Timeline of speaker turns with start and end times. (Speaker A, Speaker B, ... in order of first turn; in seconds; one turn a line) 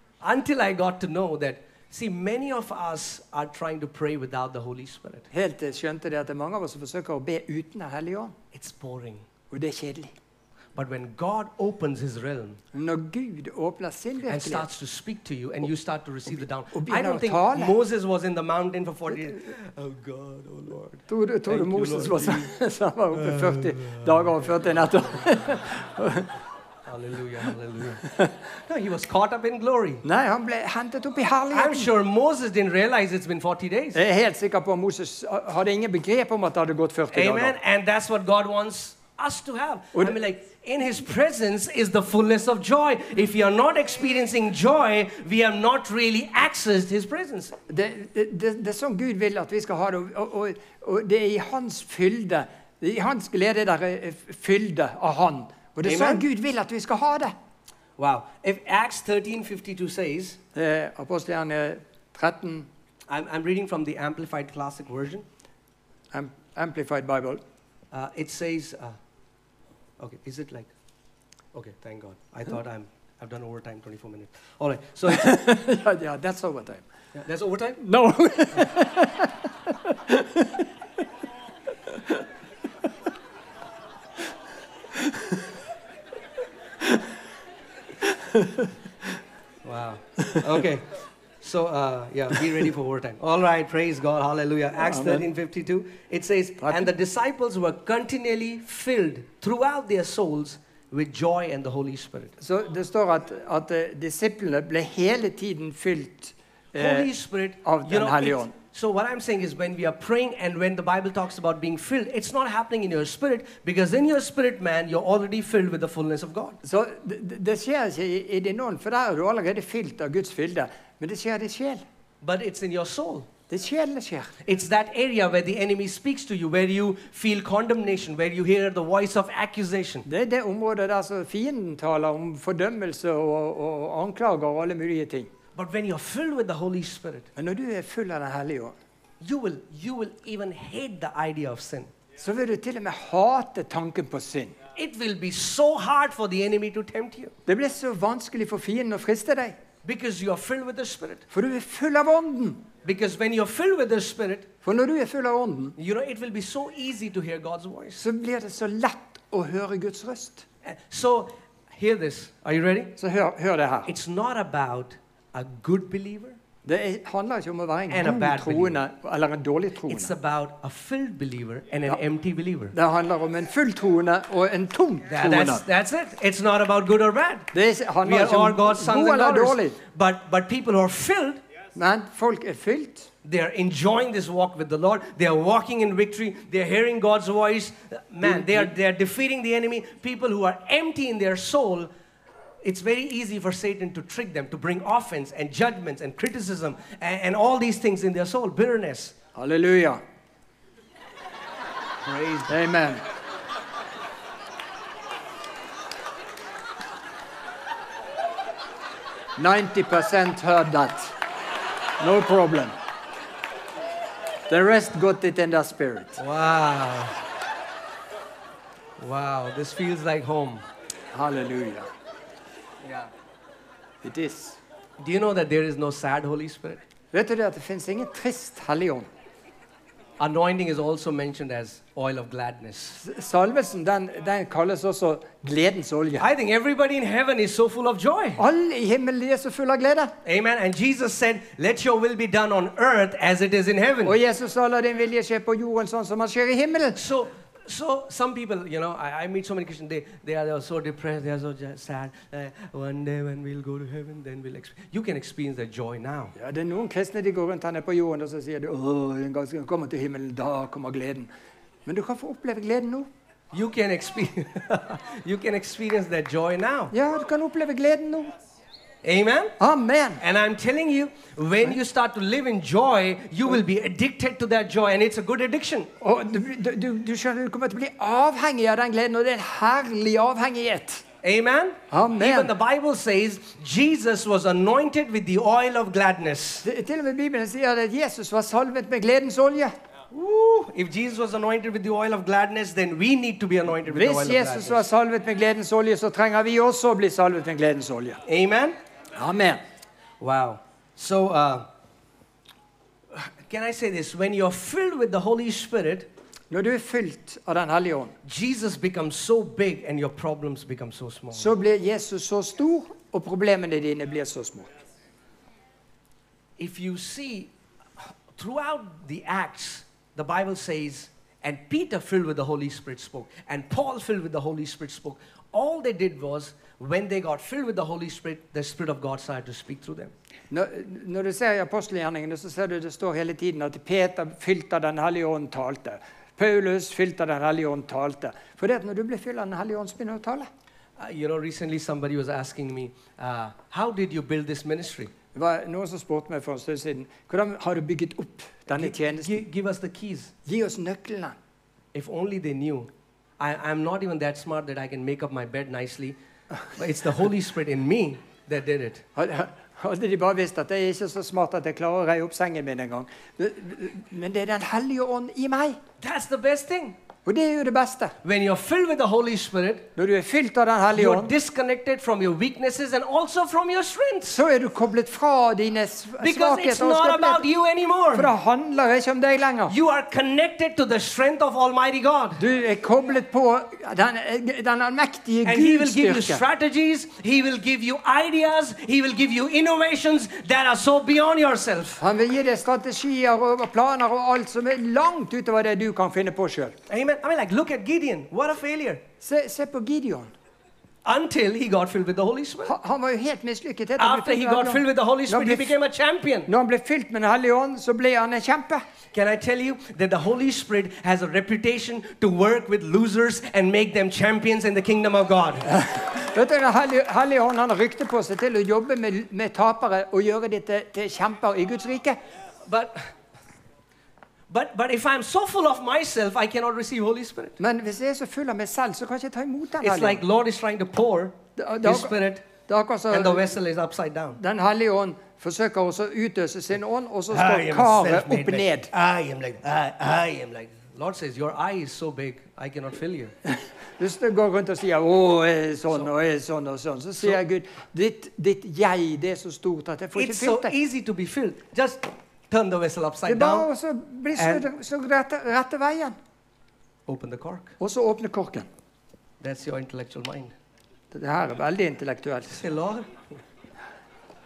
Speaker A: 0.2-5.3
Speaker B: 5.3-8.3
Speaker A: 8.5-9.2
Speaker B: 9.5-10.1
Speaker A: 10.7-12.6
Speaker B: 12.7-14.7
Speaker A: 14.3-22.5
Speaker B: 16.7-17.7
Speaker B: 21.1-26.3
Speaker A: 23.1-24.4
Speaker A: 26.9-28.0
Speaker A: 28.6-30.0
Speaker B: 30.0-31.9
Speaker A: 31.5-34.0
Speaker B: 33.9-37.5
Speaker A: 37.1-47.5
Speaker B: 47.7-57.3
Speaker A: 55.8-56.2
Speaker A: 58.0-60.4
Speaker B: 60.5-62.7
Speaker A: 63.1-65.2
Speaker B: 66.1-67.4
Speaker A: 67.9-69.0
Speaker A: 70.0-70.7
Speaker A: 71.5-75.4
Speaker B: 75.1-76.8
Speaker A: 77.1-77.8
Speaker B: 77.8-80.7
Speaker B: 81.9-82.2
Speaker B: 85.0-85.3
Speaker B: 88.0-88.7
Speaker A: 89.6-102.3
Speaker B: 94.8-95.3
Speaker B: 96.6-96.9
Speaker B: 102.4-107.1
Speaker A: 106.8-116.6
Speaker B: 107.6-108.5
Speaker B: 116.6-121.8
Speaker A: 122.2-123.3
Speaker B: 123.5-124.3
Speaker A: 124.4-130.1
Speaker B: 130.1-135.3
Speaker A: 135.5-137.3
Speaker B: 137.3-138.7
Speaker A: 139.2-141.9
Speaker B: 142.2-144.5
Speaker A: 144.7-147.3
Speaker B: 147.5-149.6
Speaker A: 149.8-151.2
Speaker B: 151.3-152.6
Speaker A: 152.8-154.5
Speaker B: 154.6-155.8
Speaker A: 155.8-158.0
Speaker B: 158.0-160.4
Speaker A: 160.6-162.9
Speaker B: 163.0-163.9
Speaker A: 163.9-166.4
Speaker B: 166.6-170.1
Speaker A: 167.9-168.8
Speaker A: 169.9-172.7
Speaker B: 172.7-175.6
Speaker A: 175.1-177.5
Speaker B: 177.5-179.8
Speaker A: 178.0-181.4
Speaker B: 181.7-183.1
Speaker A: 183.2-191.9
Speaker B: 188.2-188.7
Speaker A: 192.6-199.1
Speaker B: 199.3-200.0
Speaker A: 202.0-202.5
Speaker B: 202.5-203.0
Speaker B: 209.4-211.1
Speaker B: 212.0-212.7
Speaker B: 214.5-216.2
Speaker A: 216.2-217.2
Speaker A: 219.0-220.6
Speaker B: 221.1-221.9
Speaker A: 222.8-223.1
Speaker B: 224.0-224.6
Speaker A: 225.0-226.8
Speaker B: 227.1-229.1
Speaker A: 230.2-233.0
Speaker B: 233.0-236.2
Speaker A: 236.2-238.4
Speaker B: 238.4-240.1
Speaker A: 240.2-244.2
Speaker B: 244.0-247.0
Speaker A: 246.9-256.3
Speaker B: 256.4-261.3
Speaker B: 261.9-263.1
Speaker A: 263.5-266.9
Speaker B: 266.9-268.3
Speaker A: 269.0-269.5
Speaker B: 269.6-270.2
Speaker A: 270.2-275.9
Speaker B: 276.0-281.0
Speaker A: 281.2-286.6
Speaker B: 281.9-282.5
Speaker B: 286.6-289.7
Speaker A: 290.1-294.8
Speaker B: 293.9-298.2
Speaker A: 298.2-298.7
Speaker B: 299.1-299.6
Speaker A: 300.2-301.6
Speaker A: 303.1-306.1
Speaker B: 306.5-308.1
Speaker A: 308.2-311.5
Speaker B: 311.3-314.7
Speaker A: 316.6-330.1
Speaker B: 330.5-340.5
Speaker A: 341.0-345.1
Speaker B: 345.3-349.4
Speaker A: 348.7-350.3
Speaker B: 350.4-351.4
Speaker A: 351.9-356.2
Speaker A: 356.7-359.0
Speaker B: 359.1-365.8
Speaker A: 366.0-367.0
Speaker B: 367.2-368.1
Speaker A: 368.2-369.9
Speaker B: 369.9-371.3
Speaker A: 370.9-374.4
Speaker B: 374.3-377.4
Speaker A: 376.2-378.3
Speaker B: 378.1-379.8
Speaker A: 379.7-382.4
Speaker B: 382.4-386.4
Speaker A: 385.4-392.0
Speaker B: 392.0-396.8
Speaker A: 396.9-399.0
Speaker B: 399.2-400.3
Speaker A: 401.0-402.7
Speaker B: 402.6-405.7
Speaker A: 404.0-406.5
Speaker B: 406.5-408.8
Speaker A: 409.1-415.7
Speaker B: 415.6-422.2
Speaker A: 422.6-423.1
Speaker A: 424.5-427.6
Speaker B: 427.6-430.2
Speaker A: 429.8-432.5
Speaker B: 431.6-433.5
Speaker A: 433.1-434.4
Speaker B: 434.4-438.9
Speaker A: 437.3-443.3
Speaker B: 443.4-450.7
Speaker A: 450.1-453.7
Speaker B: 453.3-456.1
Speaker A: 454.4-454.6
Speaker A: 457.1-457.7
Speaker B: 457.8-458.7
Speaker A: 459.4-460.5
Speaker B: 461.1-462.6
Speaker A: 462.6-463.4